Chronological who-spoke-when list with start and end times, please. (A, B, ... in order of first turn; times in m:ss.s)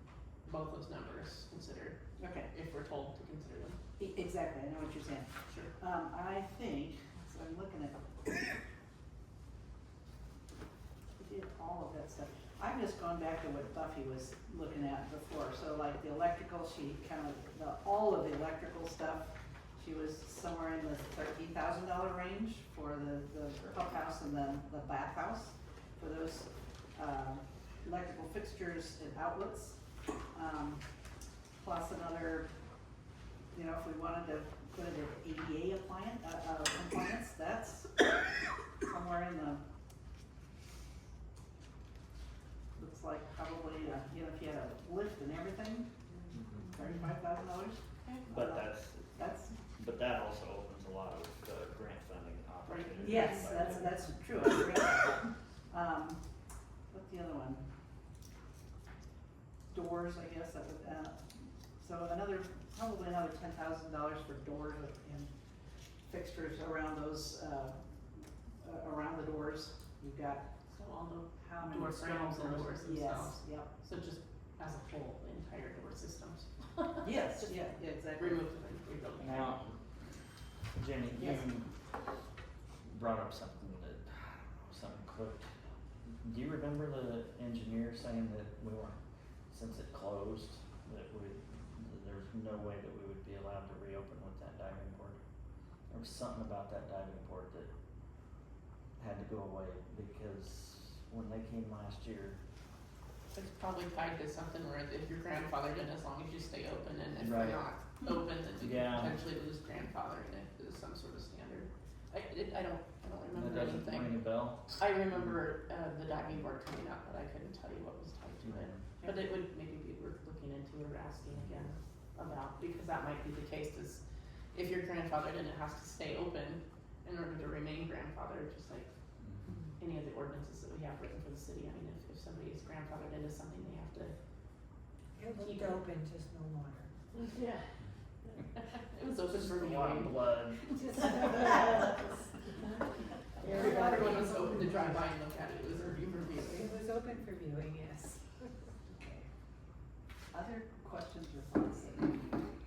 0:00.4-0:03.8 A
0:02.2-0:02.5 B
0:04.0-0:08.4 B
0:11.2-0:29.8 B
0:30.3-0:30.8 B
0:31.6-0:32.5 B
0:33.5-0:38.0 B
0:38.8-0:39.6 B
0:42.7-0:45.9 B
0:46.3-0:46.6 C
0:46.7-0:49.5 B
0:48.3-0:49.2 C
0:49.8-0:54.0 C
0:52.6-0:54.1 A
0:53.0-0:56.2 B
0:56.9-0:57.6 B
0:59.7-1:01.2 B
1:01.8-1:05.3 B
1:06.0-1:07.8 B
1:08.6-1:10.4 B
1:10.7-1:17.6 A
1:11.4-1:13.7 B
1:17.0-1:18.4 B
1:18.2-1:19.7 A
1:19.2-1:19.7 C
1:20.8-1:21.7 C
1:22.8-1:25.5 C
1:26.2-1:29.0 C
1:29.5-1:35.2 C
1:35.9-1:37.7 C
1:39.0-1:42.4 C
1:43.3-1:54.2 A
1:47.2-1:47.6 C
1:48.6-1:49.2 C
1:53.3-1:55.4 C
1:54.7-2:04.0 A
1:58.4-1:58.9 C
2:01.3-2:01.7 C
2:04.5-2:08.9 A
2:09.2-2:09.5 C
2:09.8-2:14.1 A
2:15.2-2:16.9 D
2:15.3-2:15.8 A
2:17.1-2:17.6 A
2:18.6-2:20.2 A
2:19.3-2:21.8 C
2:20.8-2:21.9 D
2:23.4-2:26.8 A
2:23.4-2:24.4 D
2:26.5-2:28.2 D
2:28.9-2:29.3 B
2:30.3-2:32.3 B